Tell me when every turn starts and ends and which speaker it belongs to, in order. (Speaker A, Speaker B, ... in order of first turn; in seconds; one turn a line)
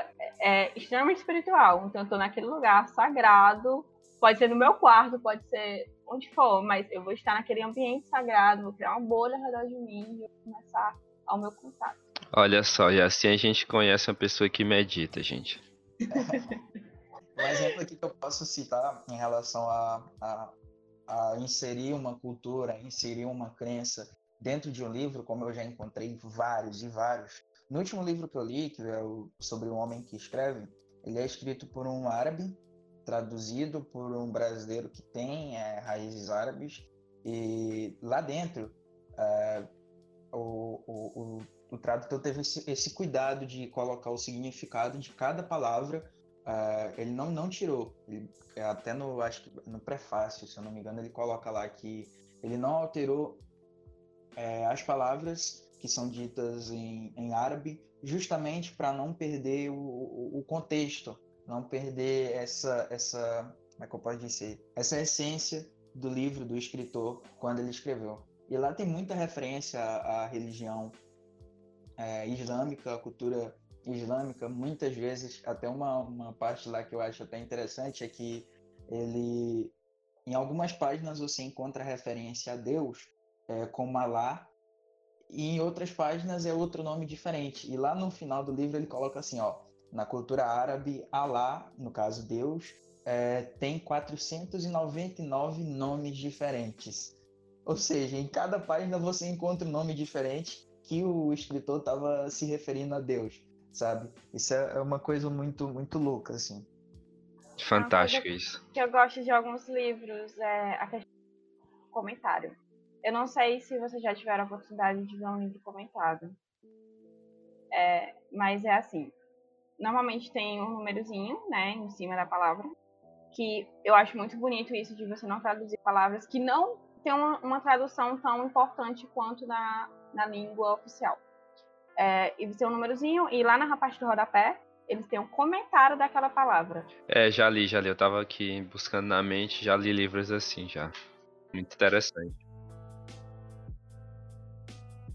Speaker A: 0.4-12.0
Speaker B: 12.3-15.6
Speaker C: 16.1-16.4
Speaker A: 16.1-16.5
Speaker C: 17.3-20.5
Speaker C: 21.1-39.7
Speaker C: 40.3-53.4
Speaker C: 54.4-71.0
Speaker C: 72.0-84.5
Speaker C: 85.3-106.7
Speaker B: 107.6-108.6
Speaker A: 107.8-111.1
Speaker A: 111.9-116.4
Speaker A: 117.7-119.1
Speaker A: 119.8-122.7
Speaker A: 123.3-131.2
Speaker A: 132.0-136.9
Speaker B: 137.1-140.9
Speaker B: 141.5-142.4